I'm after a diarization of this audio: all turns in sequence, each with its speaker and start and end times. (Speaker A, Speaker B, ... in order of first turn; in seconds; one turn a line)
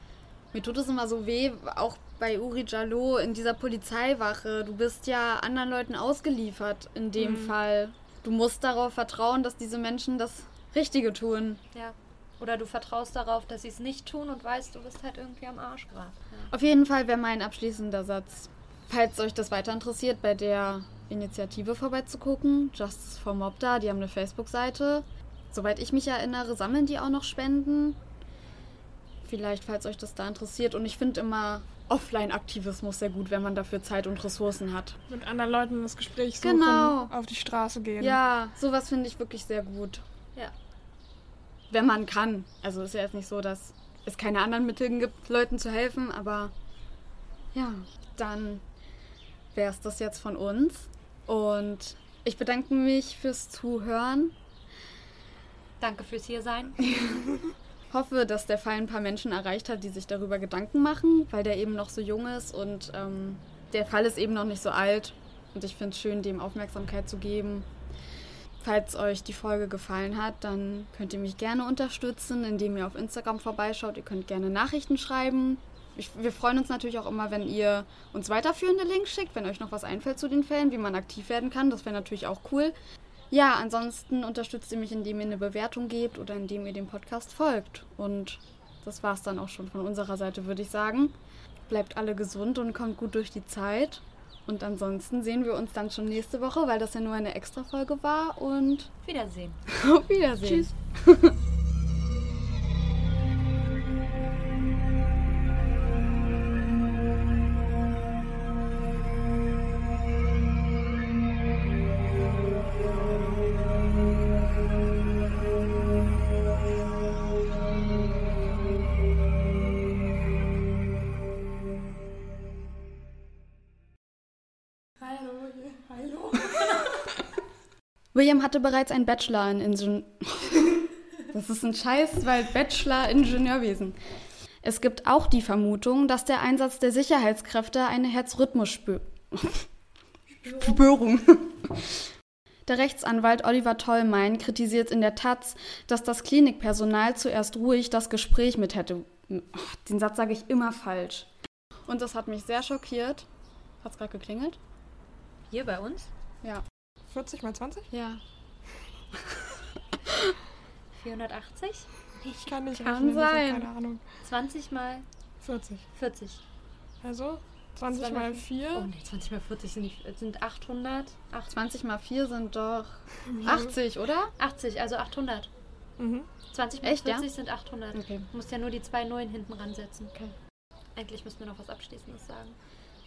Speaker A: 0.5-11.6
Speaker B: 7.2-7.5
Speaker C: 11.7-16.5
Speaker A: 16.5-28.0
Speaker A: 29.2-35.0
Speaker B: 35.1-38.2
Speaker A: 36.4-37.1
Speaker A: 38.0-40.0
Speaker A: 41.7-46.5
Speaker A: 47.5-48.6
Speaker A: 49.5-54.3
Speaker C: 55.8-56.8
Speaker A: 56.8-57.3
Speaker A: 57.9-67.7
Speaker A: 68.6-82.8
Speaker A: 83.3-91.1
Speaker A: 91.7-98.9
Speaker C: 99.0-99.6
Speaker A: 99.7-101.4
Speaker B: 125.0-127.2
Speaker A: 128.2-130.8
Speaker A: 131.3-134.0
Speaker A: 134.6-139.7
Speaker C: 140.4-140.8
Speaker A: 140.4-142.1
Speaker A: 142.7-151.3
Speaker A: 151.9-153.3
Speaker A: 153.8-154.6
Speaker C: 155.5-156.1
Speaker B: 157.1-157.9
Speaker A: 157.9-158.2
Speaker A: 160.1-160.3
Speaker C: 160.9-161.9
Speaker B: 162.2-164.1
Speaker A: 162.7-163.7
Speaker C: 164.2-165.1
Speaker B: 165.4-165.9
Speaker C: 166.0-166.4
Speaker B: 167.0-168.9
Speaker C: 167.9-171.5
Speaker A: 171.5-174.3
Speaker B: 173.2-173.7
Speaker C: 174.4-175.5
Speaker B: 176.0-176.3
Speaker C: 176.5-180.1
Speaker A: 176.8-177.2
Speaker A: 177.9-178.3
Speaker C: 181.0-182.6